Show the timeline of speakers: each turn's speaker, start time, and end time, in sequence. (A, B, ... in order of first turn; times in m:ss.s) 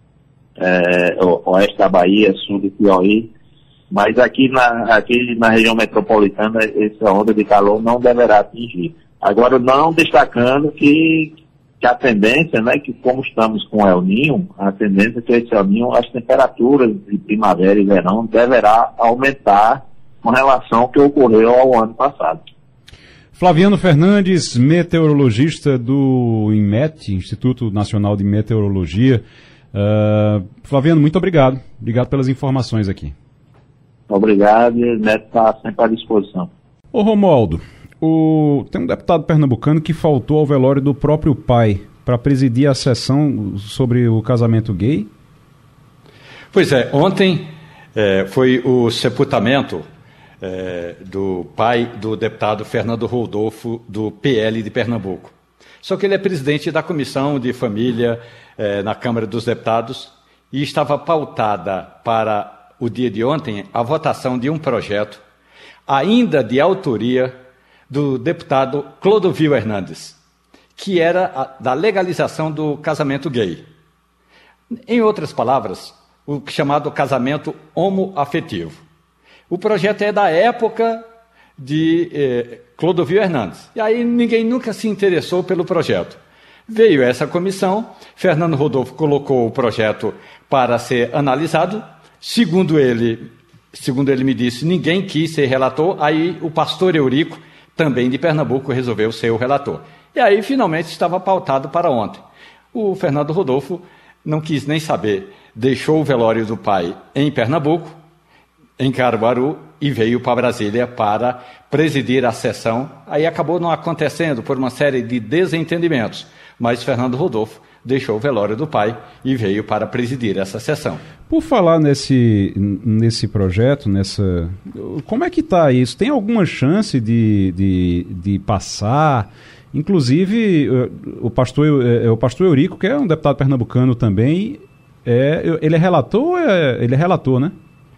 0:00.6-0:03.3 A
0:03.9-0:22.4 A
0:23.4-0:33.1 B
0:34.1-0:36.5 A
0:36.9-0:45.1 B
0:46.5-0:49.8 C
0:50.4-1:05.2 C
1:05.9-1:07.4 C
1:07.9-1:10.2 C
1:10.8-1:13.6 C
1:14.9-1:18.8 C
1:19.5-1:21.0 C
1:21.6-1:42.2 C
1:42.7-1:48.0 C
1:48.8-2:01.0 C
2:01.3-2:17.5 B